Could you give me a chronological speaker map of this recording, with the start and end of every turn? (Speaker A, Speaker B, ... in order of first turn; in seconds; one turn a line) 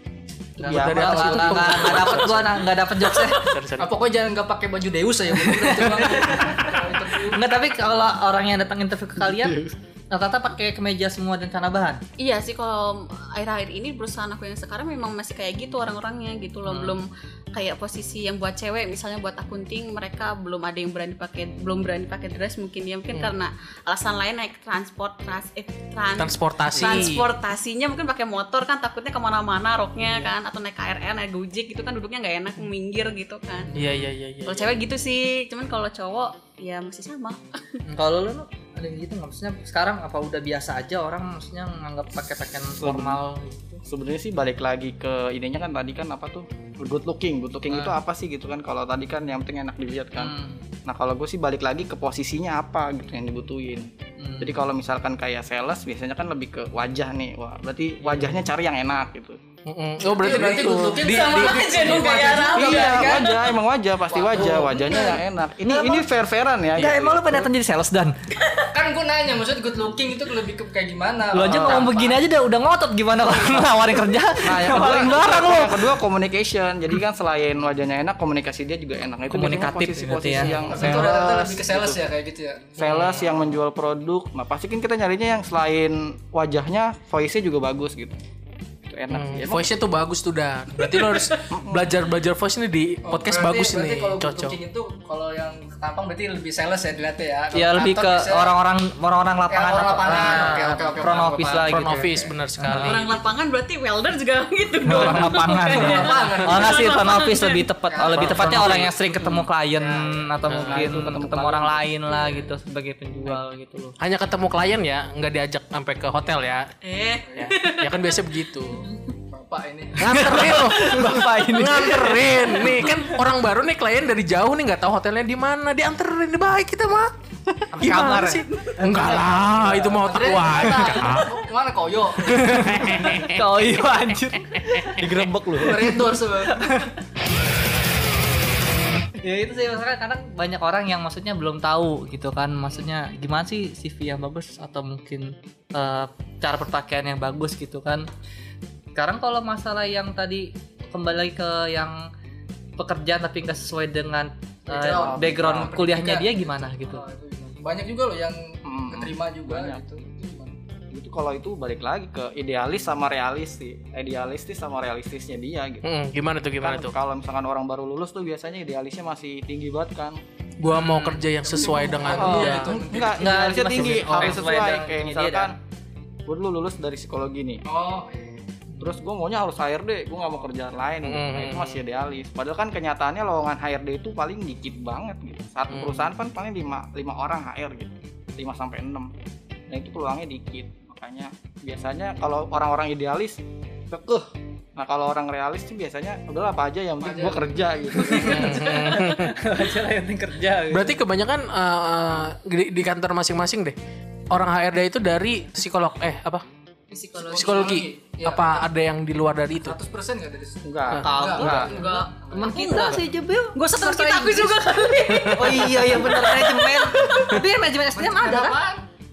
Speaker A: 0.6-2.6
Speaker B: 0.6-3.5
Speaker C: 0.6-2.5
Speaker A: 3.4-3.9
Speaker D: 3.8-7.4
Speaker B: 5.4-12.0
Speaker E: 12.2-33.7
Speaker B: 16.6-17.0
Speaker A: 26.2-27.2
Speaker B: 26.7-27.1
Speaker B: 33.6-34.0
Speaker A: 33.7-34.8
Speaker E: 34.4-37.8
Speaker B: 37.9-43.8
Speaker C: 42.8-43.2
Speaker C: 43.9-59.4
Speaker B: 47.7-48.0
Speaker B: 50.2-50.6
Speaker B: 54.2-54.6
Speaker B: 58.0-58.5
Speaker A: 59.6-62.3
Speaker D: 60.1-63.2
Speaker E: 61.0-63.6
Speaker C: 62.4-67.5
Speaker D: 64.1-64.8
Speaker B: 64.3-66.1
Speaker E: 64.7-65.2
Speaker B: 66.7-68.2
Speaker D: 68.7-72.2
Speaker B: 71.3-76.0
Speaker C: 74.4-82.0
Speaker B: 79.3-81.0
Speaker A: 80.4-80.8
Speaker D: 80.7-82.7
Speaker C: 82.8-88.2
Speaker A: 82.8-83.6
Speaker B: 82.9-83.2
Speaker C: 88.9-89.7
Speaker A: 89.1-94.6
Speaker C: 91.5-91.9
Speaker D: 93.0-98.5
Speaker B: 97.5-103.0
Speaker D: 99.5-102.3
Speaker A: 101.7-103.0
Speaker E: 102.7-107.7
Speaker B: 104.8-113.9
Speaker D: 105.4-107.2
Speaker D: 107.9-108.7
Speaker A: 108.1-108.9
Speaker D: 109.8-110.2
Speaker A: 110.5-110.9
Speaker C: 110.5-111.8
Speaker A: 114.0-116.7
Speaker E: 116.8-119.0
Speaker D: 117.3-117.5
Speaker A: 117.4-118.9
Speaker D: 119.3-120.1
Speaker A: 120.0-127.1
Speaker B: 120.0-123.0
Speaker B: 127.7-128.4
Speaker A: 127.7-131.4
Speaker E: 128.3-128.7
Speaker D: 128.9-132.5
Speaker B: 132.2-137.0
Speaker A: 132.3-133.6
Speaker A: 134.5-134.8
Speaker C: 135.0-135.9
Speaker D: 135.6-136.8
Speaker B: 139.2-148.1
Speaker B: 148.9-152.1
Speaker B: 152.8-157.0
Speaker D: 154.7-160.5
Speaker C: 154.9-155.8
Speaker C: 158.7-159.8
Speaker C: 160.9-165.9
Speaker A: 165.8-166.9
Speaker C: 166.6-170.2
Speaker A: 170.6-172.9
Speaker B: 170.7-171.2
Speaker D: 171.4-173.2
Speaker C: 172.1-175.6
Speaker B: 173.0-175.5
Speaker C: 176.2-177.6
Speaker D: 177.7-178.4
Speaker C: 178.8-189.1
Speaker A: 181.0-181.8
Speaker A: 185.7-186.1
Speaker C: 189.7-198.6
Speaker D: 197.0-197.6
Speaker B: 197.9-201.0
Speaker A: 198.2-199.4
Speaker A: 200.7-203.8
Speaker A: 204.3-206.4
Speaker E: 206.9-207.7
Speaker D: 207.2-208.6
Speaker A: 207.3-209.8
Speaker D: 209.6-212.6
Speaker C: 210.6-211.7
Speaker B: 211.0-214.5
Speaker E: 211.5-213.0
Speaker E: 213.5-217.4
Speaker A: 215.0-215.7
Speaker B: 215.2-218.6
Speaker D: 217.9-218.8